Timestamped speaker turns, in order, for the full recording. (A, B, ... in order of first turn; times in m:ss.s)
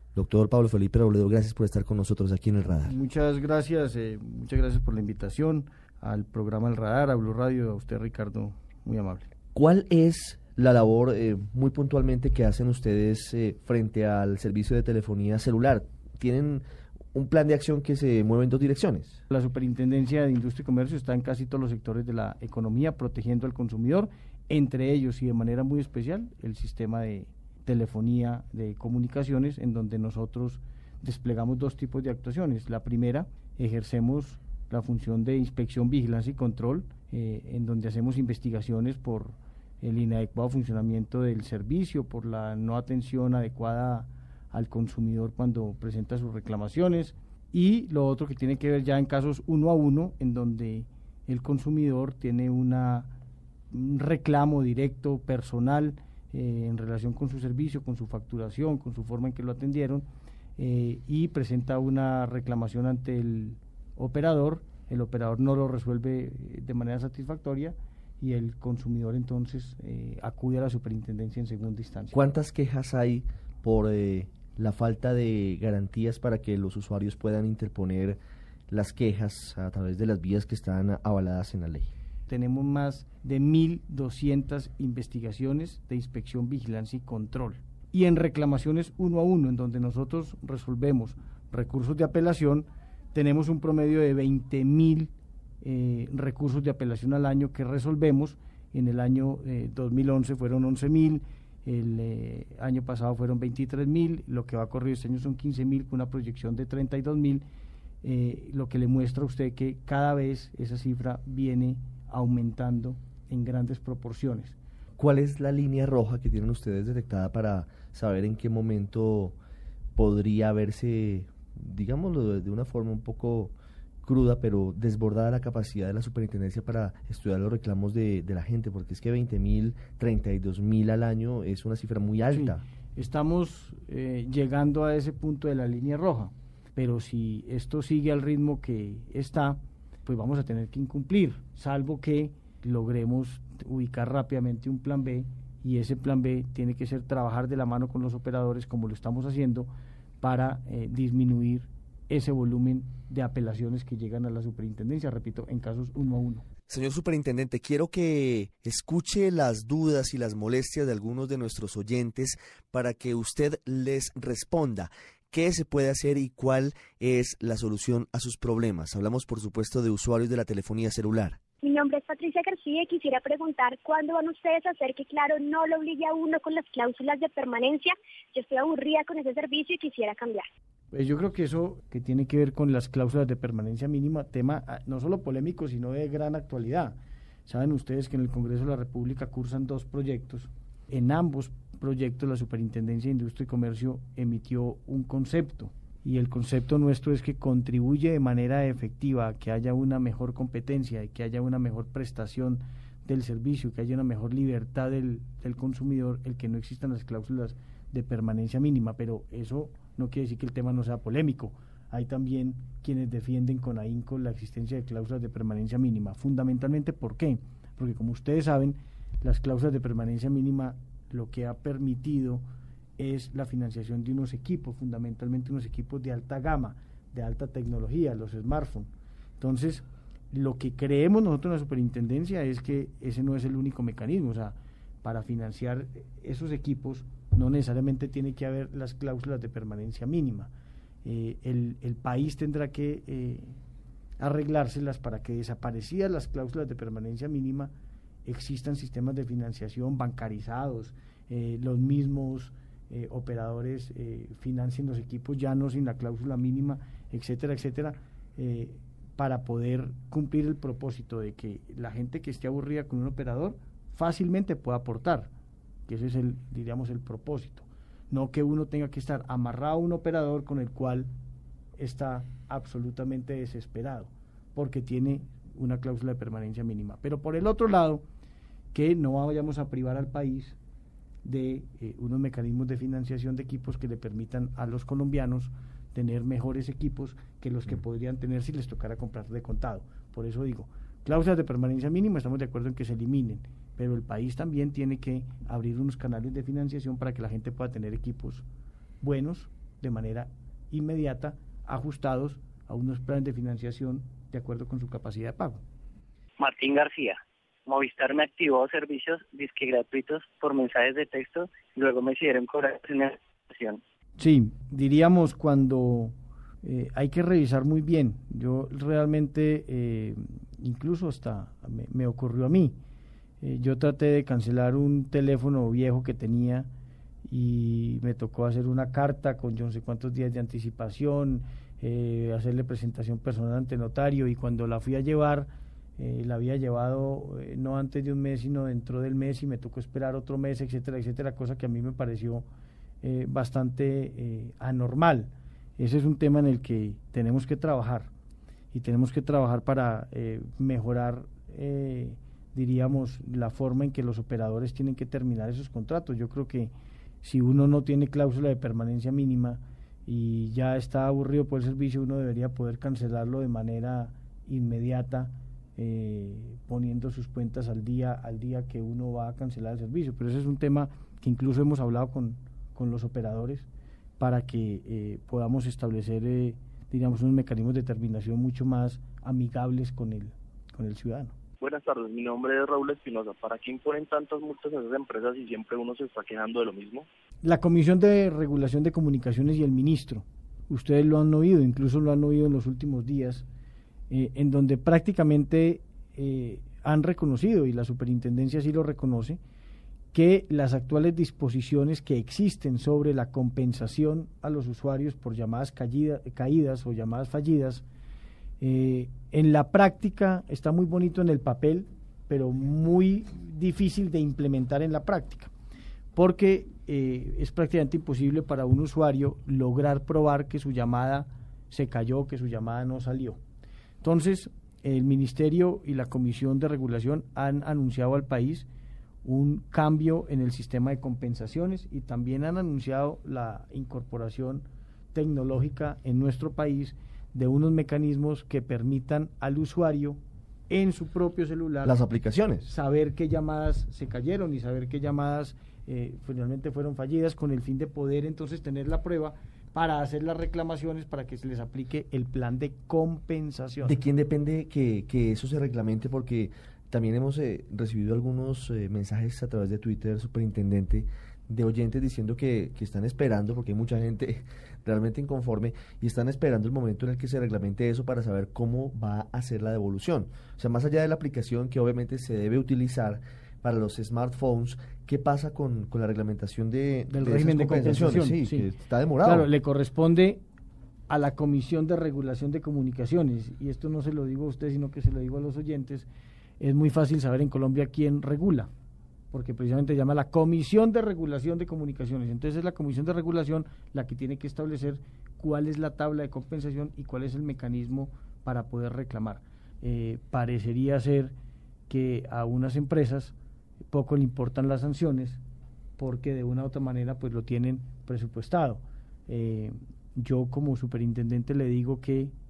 0:00.2-0:02.9 A
0:02.8-0:09.3 B
0:09.6-0:19.2 A
0:19.3-0:53.1 B
0:53.7-1:00.0 B
1:00.6-1:12.2 B
1:12.1-1:18.2 A
1:18.7-1:21.9 A
1:22.3-1:47.4 B
1:48.0-1:54.6 B
1:55.0-1:59.4 A
2:00.0-2:12.6 A
2:12.3-2:29.7 B
2:30.2-2:36.5 B
2:36.7-2:51.4 A
2:51.6-3:00.4 C
3:00.9-3:42.4 B
3:43.0-4:00.5 B
4:01.0-4:03.6 B
4:04.2-4:07.7 B
4:08.2-4:25.3 B
4:25.9-4:31.1 B
4:31.8-4:38.0 B
4:38.7-4:40.6 B
4:41.2-4:58.5 B
4:59.0-5:05.6 B
5:06.4-5:13.8 D
5:14.2-5:22.8 B
5:23.4-5:26.7 B
5:27.3-5:42.5 B
5:43.0-5:48.1 B
5:48.7-6:13.7 B
6:14.2-6:21.3 B
6:21.6-6:27.1 E
6:27.4-6:33.5 B
6:34.1-6:39.4 B
6:40.1-6:47.8 B
6:48.6-6:55.5 B
6:56.1-7:03.4 B
7:04.0-7:08.7 B
7:09.2-7:22.0 B
7:21.8-7:22.7 A
7:22.6-7:34.0 B
7:33.8-7:59.5 A
7:57.1-7:58.7 B
7:59.2-8:00.4 B
8:01.1-8:06.1 B
8:06.6-8:08.7 B
8:09.3-8:21.4 B
8:21.9-8:23.4 B
8:23.9-8:25.4 B
8:26.0-8:32.3 B